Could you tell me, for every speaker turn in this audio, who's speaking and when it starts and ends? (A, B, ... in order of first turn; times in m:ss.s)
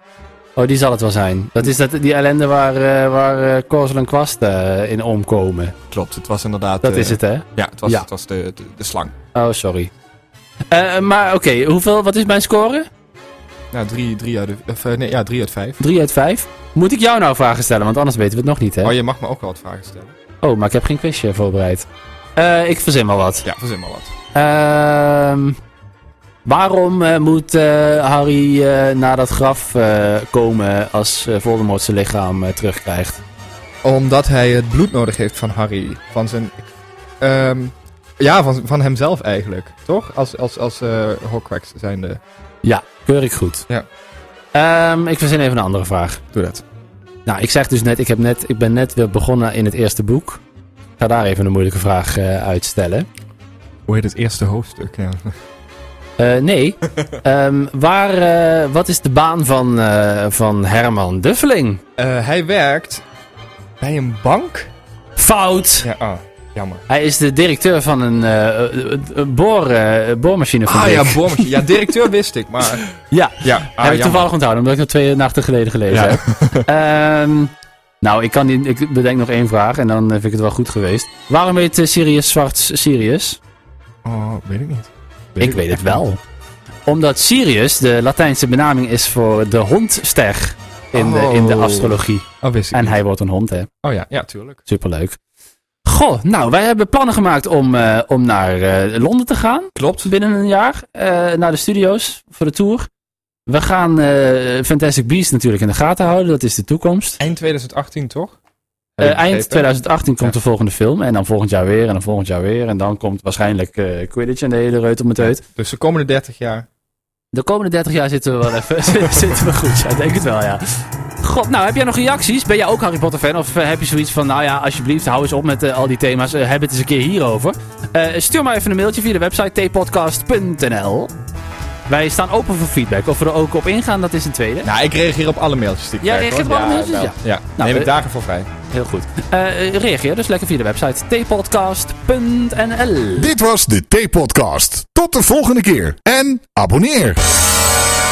0:00.6-0:05.8 A
0:05.9-0:09.2 B
0:06.8-0:08.1 A
0:09.3-0:09.9 A
0:10.7-0:12.9 A
0:13.7-0:15.8 B
0:15.8-0:18.9 A
0:18.8-0:20.2 B
0:20.4-0:23.5 A
0:23.4-0:24.1 B
0:24.3-0:25.6 A
0:26.4-0:33.2 A
0:33.8-0:42.2 B
0:42.6-0:43.7 A
0:44.5-0:46.2 A
0:46.3-0:46.6 B
0:47.3-0:50.4 A
0:51.0-0:53.1 A
0:53.9-0:55.4 B
0:56.2-1:01.8 A
0:56.9-0:57.2 B
1:02.0-1:03.0 B
1:03.8-1:04.7 B
1:05.2-1:05.9 A
1:05.8-1:06.8 B
1:06.9-1:11.9 A
1:10.7-1:12.9 B
1:12.8-1:23.4 A
1:13.4-1:14.3 B
1:15.9-1:16.7 B
1:24.0-1:26.0 B
1:25.4-1:26.2 A
1:26.9-1:33.7 A
1:30.9-1:33.0 B
1:33.8-1:34.6 B
1:34.7-1:35.2 A
1:35.8-1:42.9 A
1:39.8-1:40.1 B
1:43.5-1:47.2 A
1:47.2-1:48.4 B
1:49.0-1:49.7 B
1:49.0-1:55.4 A
1:55.2-1:56.7 B
1:57.3-2:11.1 A
2:11.9-2:14.7 A
2:14.6-2:18.5 B
2:16.0-2:17.9 A
2:18.7-2:23.3 A
2:23.2-2:27.2 C